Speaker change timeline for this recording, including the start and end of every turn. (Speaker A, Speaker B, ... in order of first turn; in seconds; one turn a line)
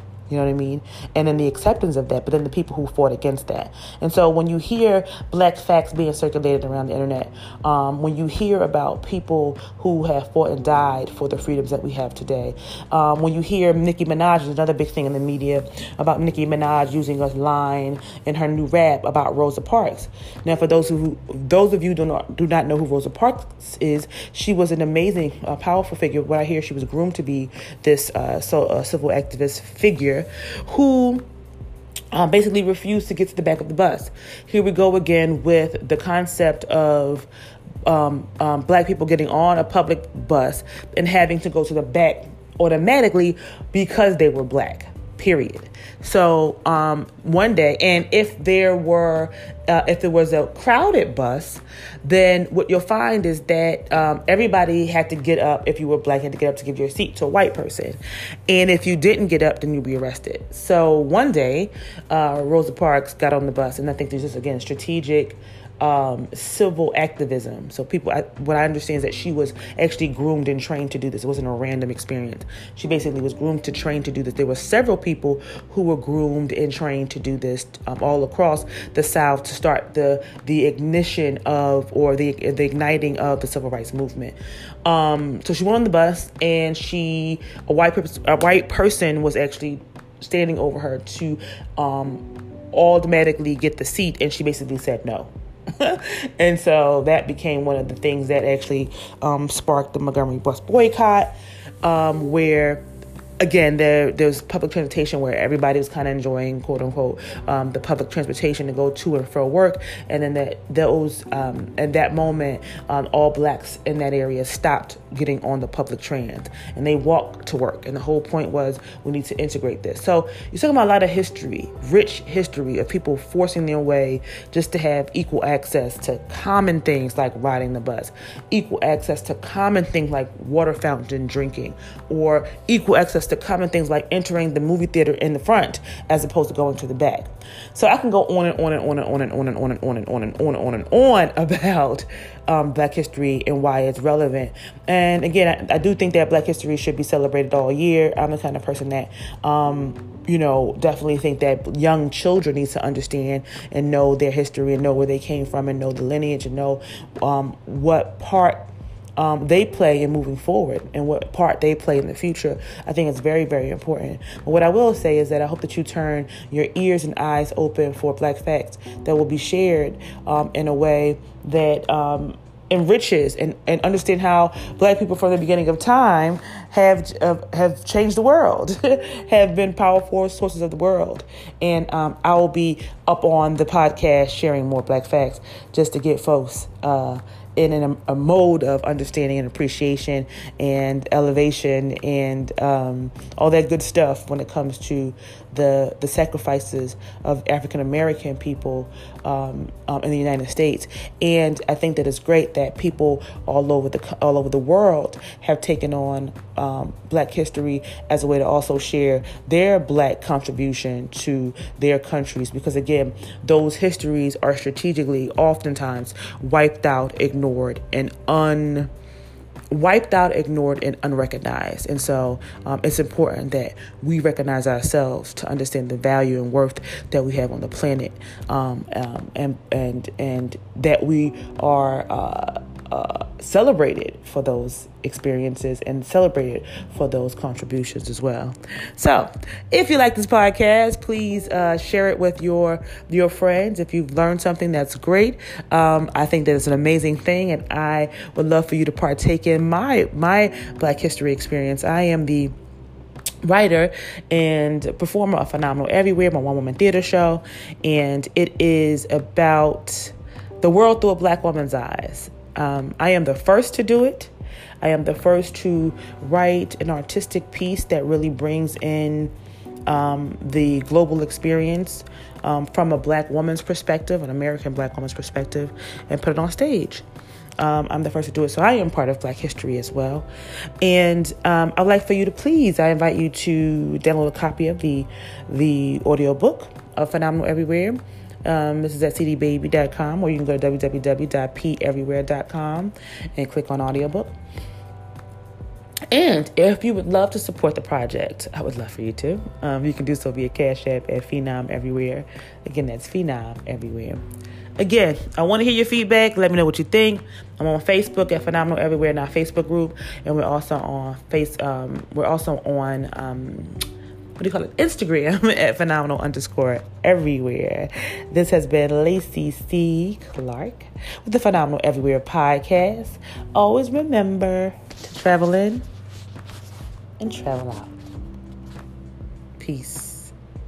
Speaker A: 0.3-31.2
Speaker A: 32.1-37.3
Speaker A: 37.9-102.8
Speaker A: 103.4-158.7
Speaker A: 159.2-218.9
Speaker A: 219.7-252.5
Speaker A: 253.4-269.3
Speaker A: 269.9-277.0
Speaker A: 277.6-280.3
Speaker A: 280.8-294.3
Speaker A: 296.1-304.2
Speaker A: 304.8-313.8
Speaker A: 314.4-325.8
Speaker A: 327.2-327.9
Speaker A: 329.6-330.3